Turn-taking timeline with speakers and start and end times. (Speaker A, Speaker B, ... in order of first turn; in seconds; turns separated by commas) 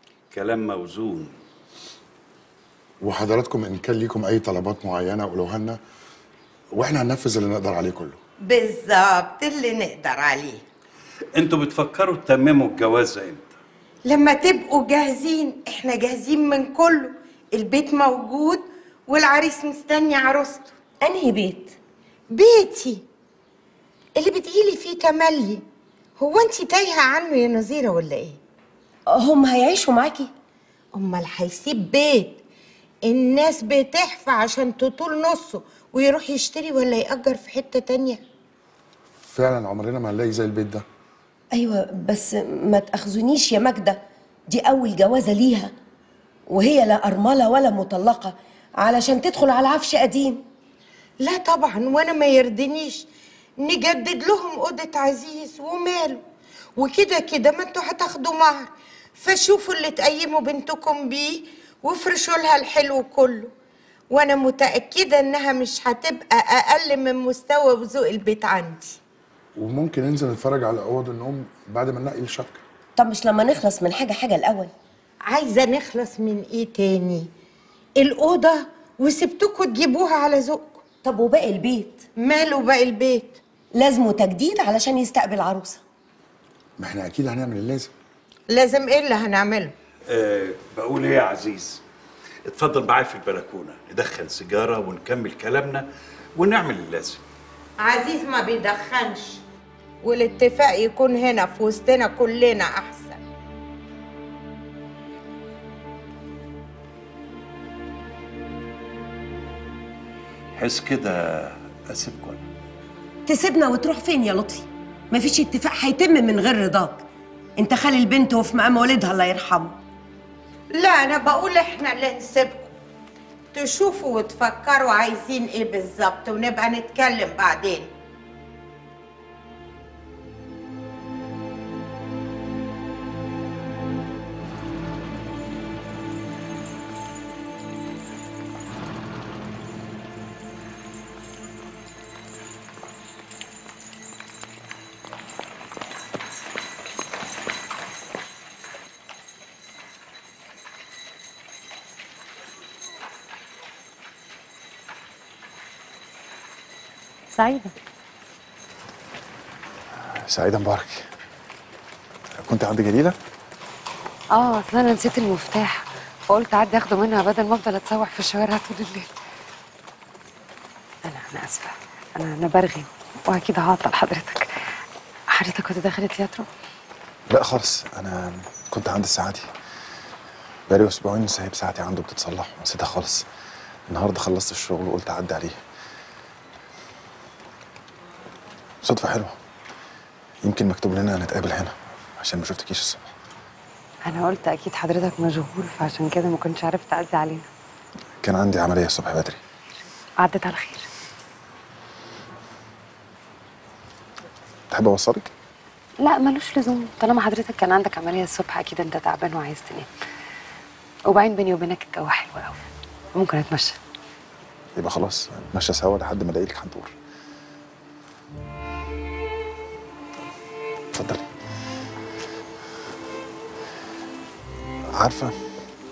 Speaker A: 0.3-1.3, Speaker B: 3.0-5.8, Speaker B: 6.8-8.2, Speaker C: 8.4-10.6, Speaker A: 11.3-13.5, Speaker C: 14.1-20.7, Speaker D: 21.0-21.8, Speaker C: 22.3-23.0, Speaker C: 24.1-25.6, Speaker C: 26.2-28.4, Speaker D: 29.1-30.3, Speaker C: 30.9-32.4, Speaker C: 33.0-38.2, Speaker B: 39.3-40.8, Speaker D: 41.5-45.7, Speaker D: 46.5-50.4, Speaker C: 51.2-53.0, Speaker C: 53.6-56.2, Speaker C: 56.8-63.5, Speaker C: 64.1-69.0, Speaker B: 69.6-72.6, Speaker D: 73.0-74.7, Speaker C: 75.3-77.3, Speaker C: 78.0-80.8, Speaker D: 81.0-82.0, Speaker C: 82.2-83.4, Speaker D: 83.7-85.8, Speaker B: 86.8-87.9, Speaker C: 88.5-89.7, Speaker A: 90.1-91.8, Speaker A: 92.5-95.8, Speaker A: 96.3-97.2, Speaker C: 97.8-99.4, Speaker C: 100.0-103.2, Speaker A: 110.5-112.4, Speaker D: 113.3-117.0, Speaker D: 117.6-119.8, Speaker C: 120.8-122.7, Speaker C: 123.5-127.9, Speaker E: 157.3-157.7, Speaker F: 159.9-161.1, Speaker F: 162.4-163.2, Speaker E: 164.3-169.1, Speaker E: 171.1-174.5, Speaker E: 175.3-176.5, Speaker F: 177.3-179.5, Speaker F: 180.7-183.2, Speaker F: 183.9-185.6, Speaker F: 188.8-189.4, Speaker F: 190.4-193.1, Speaker E: 194.0-197.5, Speaker F: 198.2-199.4, Speaker E: 200.2-200.9, Speaker F: 204.7-205.3, Speaker E: 206.0-209.9, Speaker E: 211.1-212.6, Speaker E: 213.1-213.8, Speaker F: 214.8-216.9, Speaker F: 220.9-221.2, Speaker F: 225.0-225.3